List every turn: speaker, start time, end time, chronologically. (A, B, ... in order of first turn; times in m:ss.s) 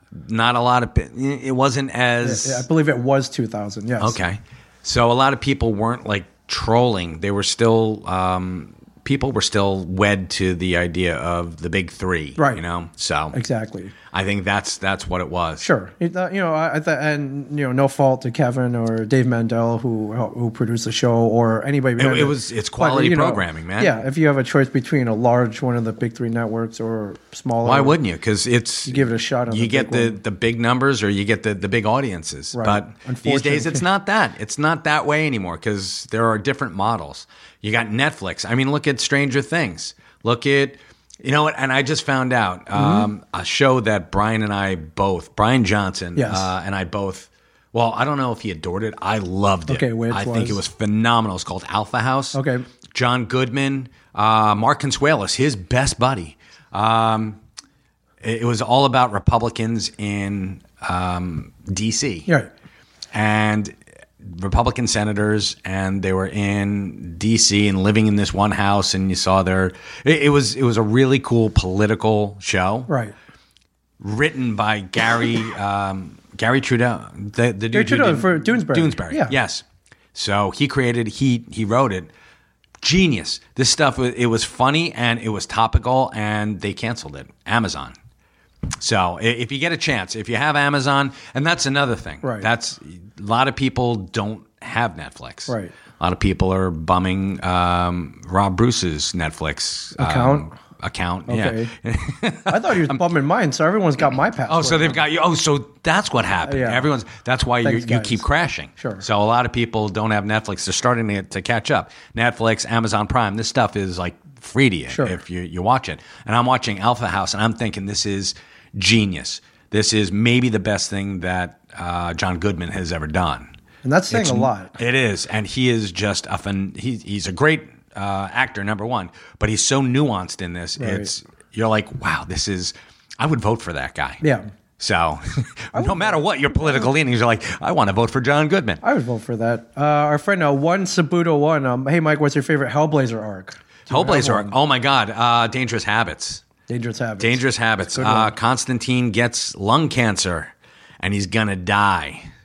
0:00.1-0:02.6 A
0:02.2-0:04.2 B
0:04.0-0:13.4 A
0:12.4-0:12.6 B
0:13.3-0:13.9 B
0:14.1-0:15.6 A
0:15.6-0:28.0 B
0:22.0-0:23.9 A
0:27.6-0:52.4 A
0:28.8-0:30.2 B
0:32.5-0:33.8 B
0:42.7-0:43.1 B
0:46.2-0:46.5 B
0:49.7-0:50.6 B
0:52.3-0:52.6 B
0:52.9-0:57.4 A
0:58.2-1:02.3 A
1:03.1-1:12.9 A
1:12.9-1:13.1 B
1:14.0-1:22.1 A
1:17.7-1:19.3 B
1:22.8-1:27.9 A
1:28.8-1:43.0 A
1:32.2-1:32.5 B
1:35.5-1:35.7 B
1:40.0-1:40.5 B
1:41.3-1:41.7 B
1:42.5-1:45.0 B
1:44.5-2:03.5 A
1:46.4-1:46.8 B
1:47.6-1:48.2 B
1:48.8-1:49.0 B
1:54.9-1:55.2 B
2:03.8-2:04.8 B
2:04.1-2:14.2 A
2:10.8-2:11.1 B
2:14.2-2:14.5 B
2:14.8-2:18.8 A
2:15.7-2:16.9 B
2:18.8-2:24.5 B
2:23.9-2:26.4 A
2:26.7-2:28.3 B
2:27.2-2:32.3 A